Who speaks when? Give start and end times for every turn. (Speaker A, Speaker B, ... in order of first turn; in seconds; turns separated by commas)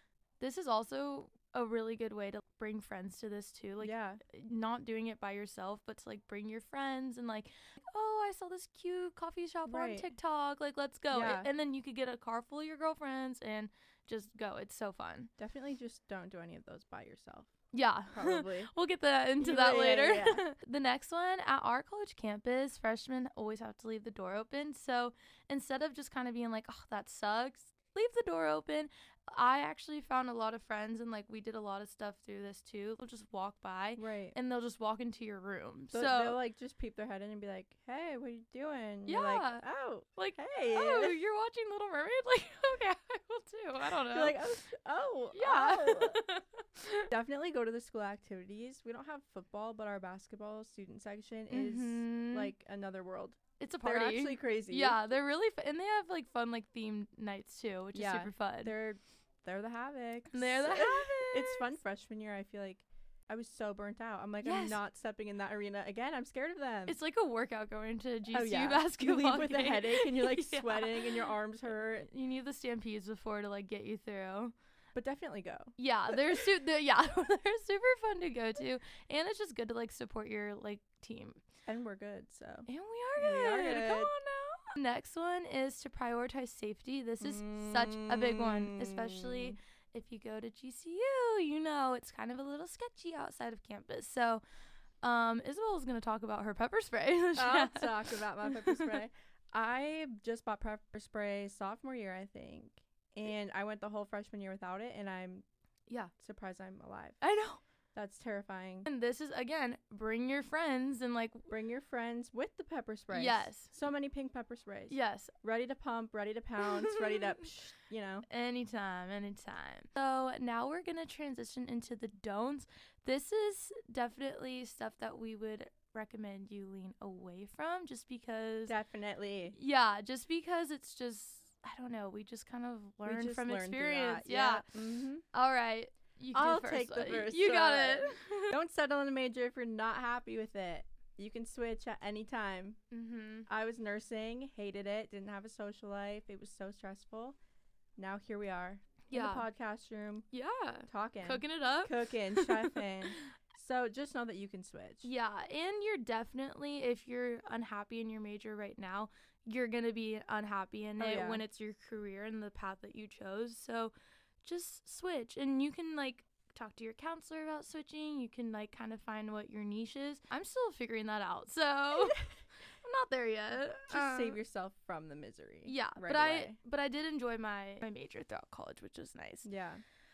Speaker A: 0.4-15.3, Speaker B: 3.8-4.2, Speaker B: 9.7-10.1, Speaker B: 11.1-11.5, Speaker B: 15.4-17.5, Speaker A: 17.7-36.4, Speaker B: 18.1-18.7, Speaker B: 19.4-20.4, Speaker B: 34.0-34.4, Speaker B: 35.9-41.2, Speaker A: 39.0-39.6, Speaker A: 40.1-44.4, Speaker B: 43.9-46.2, Speaker A: 45.3-47.1, Speaker B: 47.1-55.0, Speaker A: 51.5-52.5, Speaker A: 53.6-58.7, Speaker B: 57.9-67.0, Speaker A: 60.3-61.8, Speaker A: 64.4-64.8, Speaker A: 66.9-71.3, Speaker B: 68.3-72.1, Speaker A: 72.0-74.5, Speaker B: 74.9-76.5, Speaker A: 75.8-81.4, Speaker B: 81.7-84.1, Speaker A: 82.7-94.4, Speaker B: 87.2-89.6, Speaker A: 95.0-99.0, Speaker B: 97.3-105.4, Speaker B: 106.2-107.2, Speaker A: 107.2-107.6, Speaker B: 107.9-108.9, Speaker A: 108.8-111.5, Speaker B: 111.5-118.2, Speaker A: 113.1-113.7, Speaker A: 114.9-115.3, Speaker A: 116.6-117.4, Speaker A: 118.3-128.7, Speaker B: 128.7-129.6, Speaker A: 129.5-134.7, Speaker B: 133.0-135.2, Speaker A: 135.3-138.5, Speaker B: 136.3-142.8, Speaker A: 142.9-143.5, Speaker B: 143.5-147.3, Speaker B: 148.0-150.2, Speaker A: 149.1-149.4, Speaker A: 150.3-153.3, Speaker B: 150.9-155.1, Speaker A: 155.0-172.3, Speaker B: 161.0-161.4, Speaker A: 172.8-174.4, Speaker B: 173.9-176.6, Speaker A: 175.7-179.5, Speaker B: 179.4-179.8